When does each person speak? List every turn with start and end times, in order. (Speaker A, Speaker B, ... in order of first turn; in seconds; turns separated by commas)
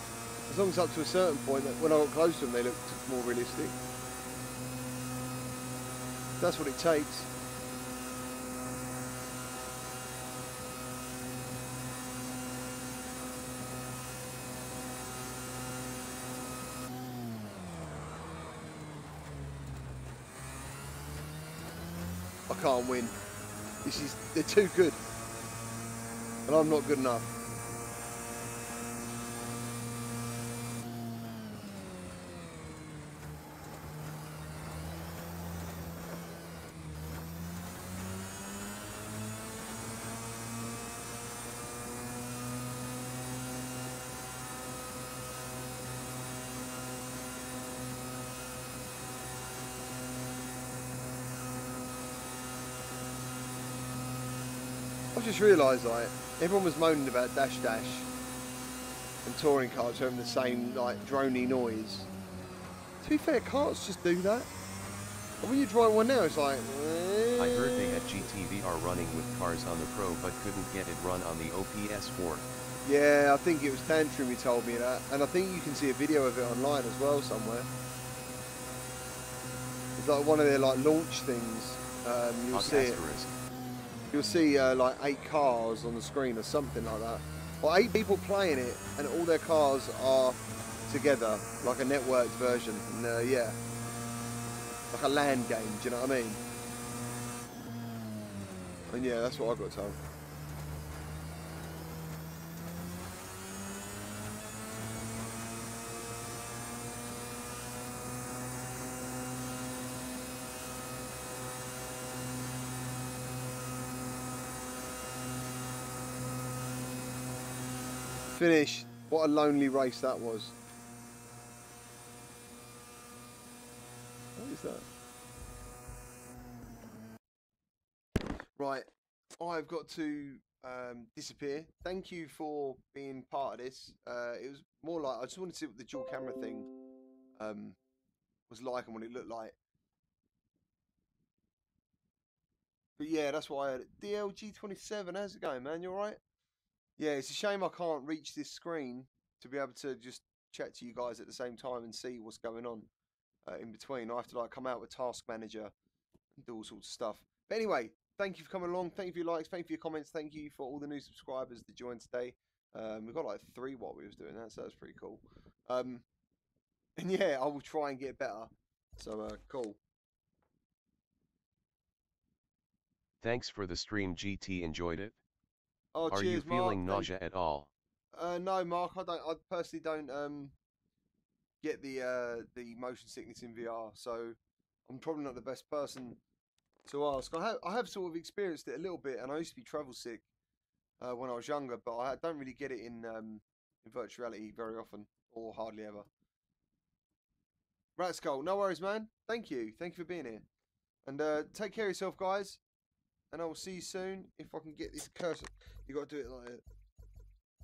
Speaker A: 0.5-3.8, Speaker A: 6.4-7.3, Speaker A: 22.5-23.2, Speaker A: 23.8-25.0, Speaker A: 26.5-27.3, Speaker A: 55.1-58.1, Speaker A: 59.2-62.1, Speaker A: 63.0-64.5, Speaker A: 65.4-68.3, Speaker B: 67.4-72.5, Speaker A: 72.8-77.7, Speaker A: 80.0-83.0, Speaker B: 82.5-83.3, Speaker A: 84.1-93.6, Speaker A: 94.9-96.4, Speaker A: 98.9-100.0, Speaker A: 118.3-120.5, Speaker A: 124.4-124.9, Speaker A: 128.6-128.9, Speaker A: 129.4-136.7, Speaker A: 137.4-137.8, Speaker A: 138.5-139.6, Speaker A: 143.0-146.2, Speaker A: 147.0-152.9, Speaker A: 153.5-155.7, Speaker A: 156.4-166.1, Speaker A: 167.0-169.8, Speaker B: 173.2-175.2, Speaker A: 175.9-177.1, Speaker B: 176.1-177.7, Speaker A: 178.1-180.6, Speaker A: 181.6-186.2, Speaker A: 186.9-190.2, Speaker A: 191.0-196.1, Speaker A: 198.0-200.5, Speaker A: 201.1-202.6, Speaker A: 203.3-206.6